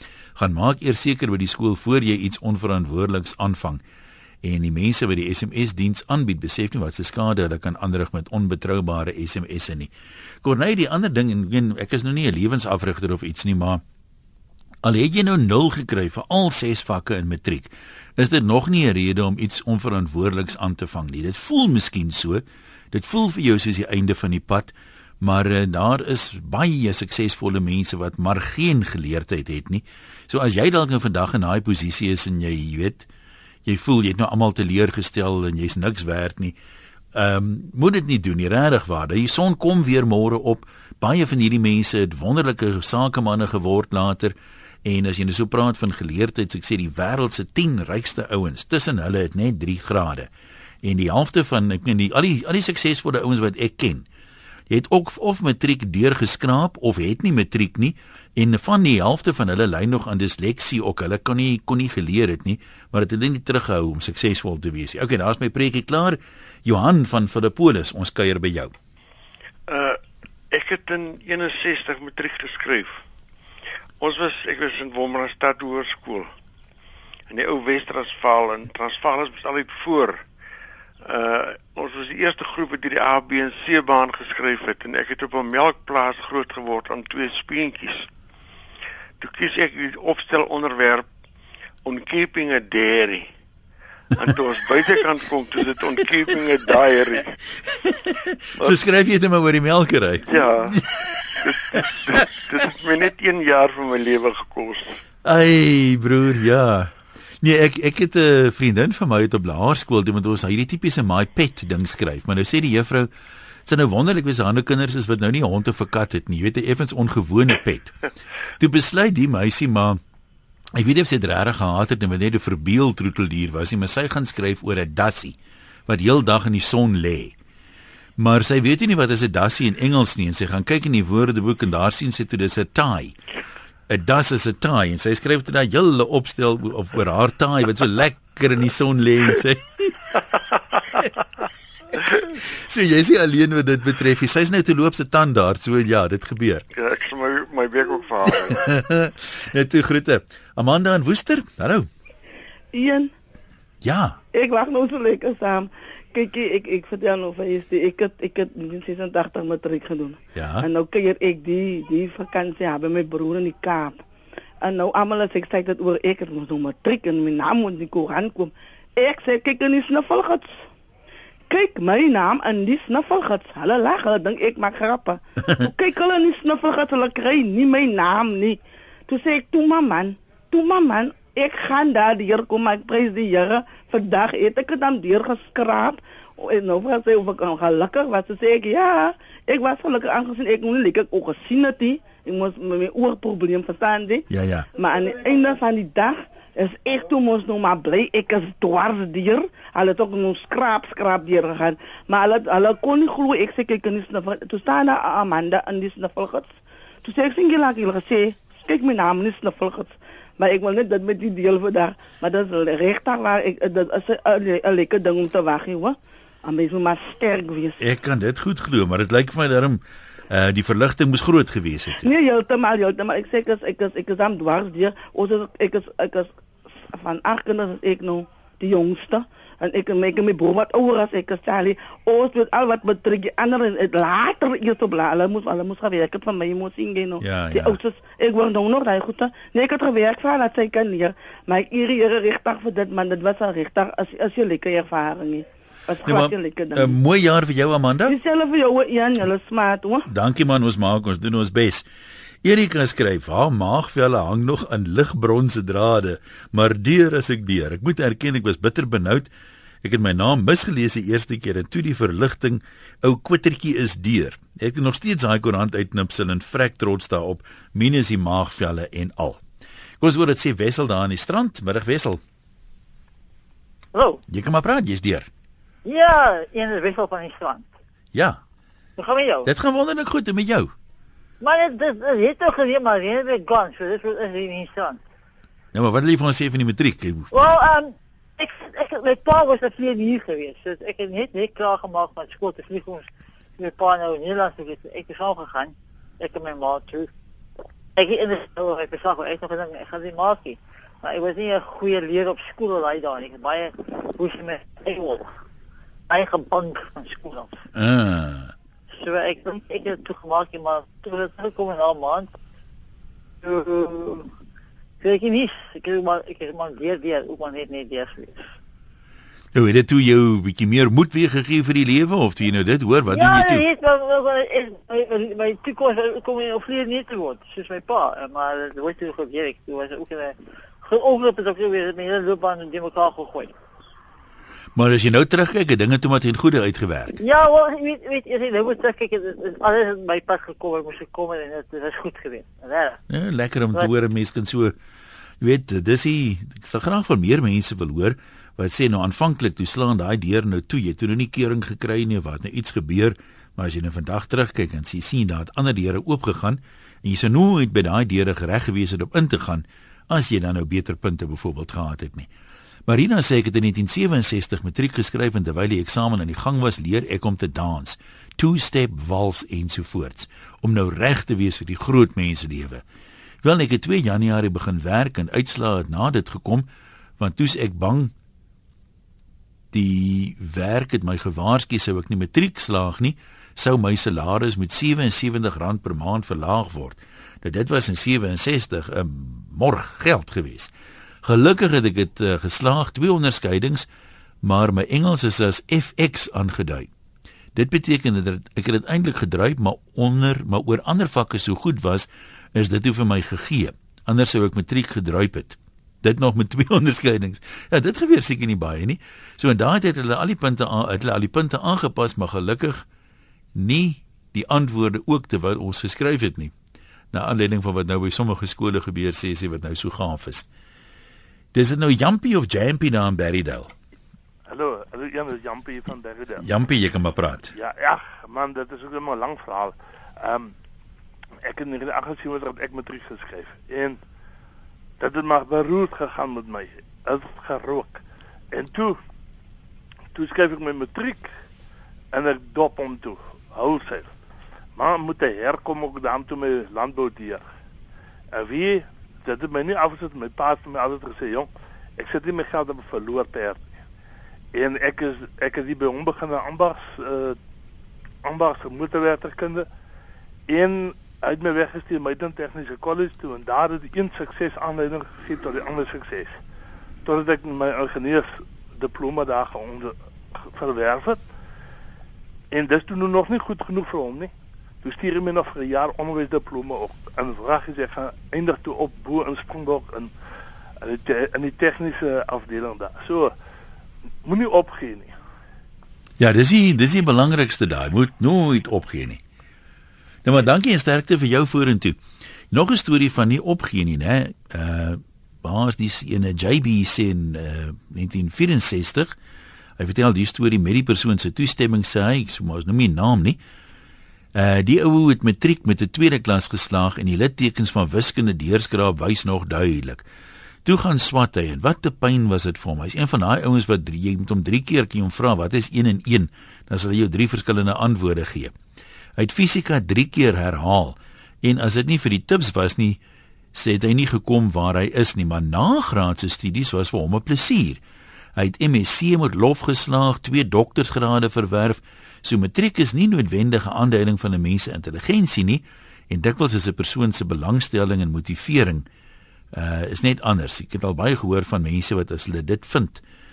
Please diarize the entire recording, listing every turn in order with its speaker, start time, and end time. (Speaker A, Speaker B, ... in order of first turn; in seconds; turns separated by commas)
Speaker A: 0.3-3.8, Speaker A: 4.4-9.9, Speaker A: 10.4-13.8, Speaker A: 14.8-33.1, Speaker A: 33.6-36.5, Speaker A: 37.1-50.3, Speaker A: 50.8-54.0, Speaker A: 54.7-68.7, Speaker B: 69.7-70.0, Speaker B: 70.5-73.0, Speaker B: 74.0-76.3, Speaker B: 77.3-80.2, Speaker B: 81.0-88.1, Speaker B: 89.2-91.1, Speaker B: 91.8-93.3, Speaker B: 94.2-97.3, Speaker A: 98.1-100.8, Speaker B: 100.3-100.8, Speaker B: 101.4-105.0, Speaker A: 105.2-113.1, Speaker A: 113.7-118.0, Speaker A: 118.6-120.0, Speaker A: 120.7-125.3, Speaker A: 125.9-127.3, Speaker A: 128.2-133.2, Speaker A: 133.9-139.9, Speaker A: 142.4-146.6, Speaker B: 146.7-148.7, Speaker A: 148.5-151.9, Speaker C: 152.7-153.1, Speaker A: 153.8-154.2, Speaker C: 154.3-164.0, Speaker A: 160.3-160.7, Speaker C: 164.6-170.7, Speaker C: 171.5-194.2, Speaker A: 194.3-194.7, Speaker C: 194.7-217.8, Speaker A: 217.8-222.1, Speaker C: 222.0-226.3, Speaker C: 226.9-247.0, Speaker A: 237.2-237.8, Speaker A: 246.0-248.2, Speaker C: 248.1-250.1, Speaker A: 250.1-251.8, Speaker A: 252.4-259.3, Speaker A: 259.8-269.4, Speaker A: 270.0-272.2, Speaker D: 273.9-274.2, Speaker A: 274.3-275.3, Speaker D: 275.8-277.7, Speaker A: 278.1-278.4, Speaker D: 279.0-279.5, Speaker A: 279.4-280.7, Speaker D: 281.4-285.0, Speaker A: 285.7-287.3, Speaker D: 287.3-293.1, Speaker D: 293.6-297.1, Speaker D: 297.9-305.3, Speaker D: 306.1-307.6, Speaker A: 307.7-308.5, Speaker D: 308.9-312.3, Speaker D: 313.4-314.3, Speaker D: 315.0-318.3, Speaker A: 319.5-323.6, Speaker D: 323.1-333.5, Speaker A: 334.8-337.1, Speaker D: 337.2-343.0, Speaker A: 343.1-344.7, Speaker A: 345.4-362.3, Speaker A: 362.9-372.8, Speaker A: 373.4-376.7, Speaker A: 377.2-378.1, Speaker A: 379.7-390.7, Speaker A: 391.2-393.9, Speaker A: 394.4-396.9, Speaker A: 397.5-412.9, Speaker A: 413.6-416.5, Speaker A: 417.1-420.4, Speaker A: 421.5-423.7, Speaker E: 424.5-426.5, Speaker A: 426.4-427.5, Speaker E: 427.5-430.5, Speaker E: 431.4-434.0, Speaker E: 435.0-438.0, Speaker E: 438.5-439.0, Speaker E: 440.1-441.3, Speaker E: 442.1-444.1, Speaker E: 444.8-447.5, Speaker E: 448.3-453.8, Speaker E: 454.5-457.4, Speaker E: 458.2-459.7, Speaker E: 460.5-466.4, Speaker E: 467.0-471.2, Speaker E: 472.5-474.3, Speaker E: 474.8-480.1, Speaker E: 480.8-483.3, Speaker E: 484.2-485.1, Speaker A: 486.2-489.2, Speaker A: 490.2-492.0, Speaker A: 492.5-499.1, Speaker A: 499.8-503.4, Speaker A: 504.3-510.0, Speaker A: 510.6-518.5, Speaker A: 519.2-523.0, Speaker A: 523.5-527.8, Speaker A: 528.4-538.9, Speaker A: 539.5-543.0